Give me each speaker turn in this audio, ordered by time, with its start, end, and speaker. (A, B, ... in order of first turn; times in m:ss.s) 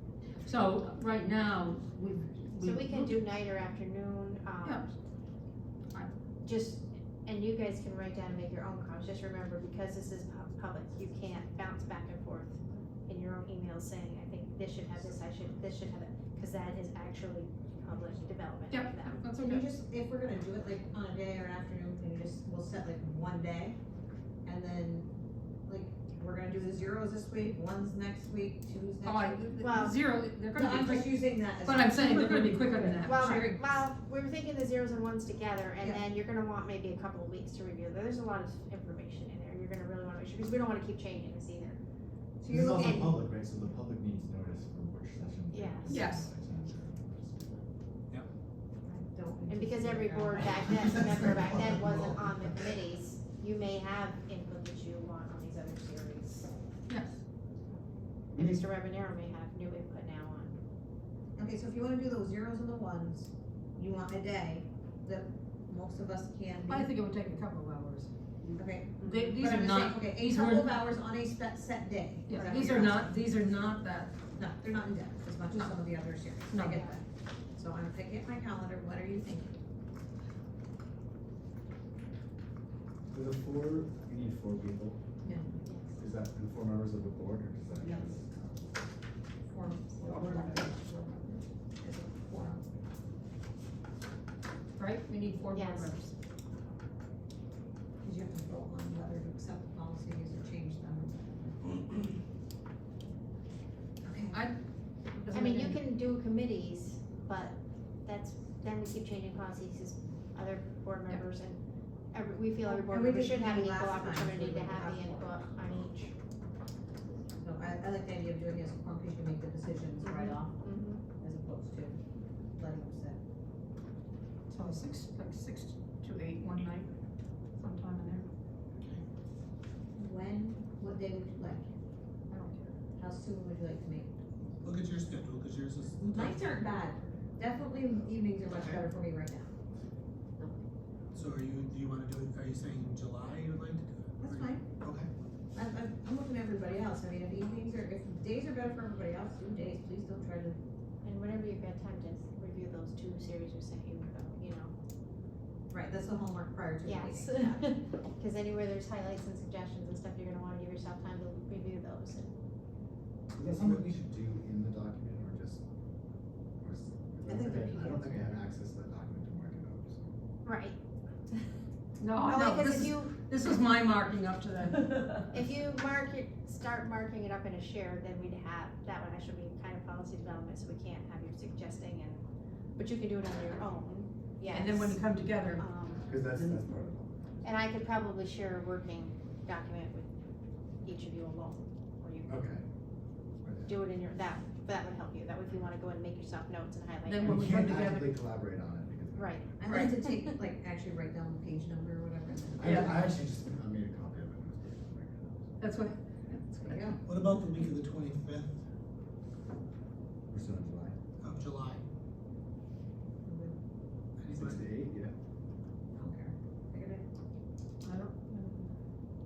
0:00.4-0:03.2 A
0:02.6-0:04.9 B
0:04.6-0:04.9 A
0:06.4-0:19.3 B
0:18.7-0:19.7 A
0:19.3-0:23.8 C
0:24.4-0:25.1 C
0:25.6-0:29.5 C
0:29.0-0:33.6 A
0:29.6-0:30.0 B
0:30.5-0:33.4 C
0:33.0-0:41.8 B
0:35.8-0:36.0 C
0:42.4-0:43.2 C
0:42.5-0:47.6 D
0:42.8-0:43.2 B
0:45.5-0:46.0 B
0:45.9-0:46.3 A
0:48.8-0:51.5 C
0:49.5-0:56.5 B
0:51.0-0:52.4 D
0:56.9-0:57.2 A
0:58.3-1:00.6 B
0:58.3-0:58.7 D
1:01.4-1:06.9 C
1:06.7-1:10.8 A
1:08.5-1:13.1 C
1:09.0-1:09.3 B
1:12.3-1:14.1 A
1:12.3-1:12.8 B
1:14.3-1:17.0 C
1:15.5-1:16.9 A
1:16.7-1:16.9 B
1:17.5-1:19.6 C
1:23.1-1:25.0 D
1:25.2-1:25.6 C
1:25.6-1:25.9 B
1:26.0-1:28.7 D
1:29.4-1:32.7 C
1:29.7-1:30.8 A
1:34.8-1:36.1 A
1:35.5-1:36.1 B
1:38.0-1:41.8 C
1:44.0-1:44.4 C
1:44.3-1:45.8 A
1:45.3-1:56.1 B
1:52.6-1:55.4 C
1:57.4-2:02.0 C
2:00.0-2:01.1 B
2:02.6-2:03.2 C
2:04.5-2:06.9 A
2:07.5-2:08.3 A
2:08.7-2:09.0 E
2:10.0-2:11.7 C
2:12.3-2:12.8 A
2:13.0-2:14.1 C
2:14.6-2:16.5 E
2:16.0-2:19.5 C
2:18.5-2:18.8 E
2:21.1-2:25.1 E
2:24.2-2:24.6 C
2:25.5-2:30.6 C
2:31.0-2:34.7 B
2:35.7-2:37.6 C
2:36.8-2:42.3 B
2:43.3-2:45.6 D
2:43.4-2:43.9 E
2:46.6-2:50.2 D
2:47.2-2:48.4 C
2:50.4-2:50.8 B
2:52.0-2:55.2 A
2:52.2-2:53.6 B
2:55.3-3:02.2 B
3:02.8-3:05.0 B
3:04.5-3:05.6 A
3:05.6-3:06.1 B
3:06.0-3:07.1 D
3:07.4-3:10.1 B
3:10.8-3:12.5 B
3:12.2-3:12.6 D
3:13.4-3:13.8 D
3:13.7-3:17.7 B
3:17.0-3:18.2 A
3:17.2-3:19.4 D
3:19.1-3:19.6 B
3:19.6-3:23.1 C
3:22.6-3:25.6 D
3:22.6-3:23.0 A
3:25.6-3:27.0 A
3:26.6-3:27.0 C
3:27.0-3:28.5 E
3:30.3-3:31.0 D
3:31.2-3:31.8 E
3:33.2-3:33.6 C
3:34.2-3:34.7 E
3:34.3-3:35.1 D
3:35.9-3:37.0 C
3:37.8-3:38.7 A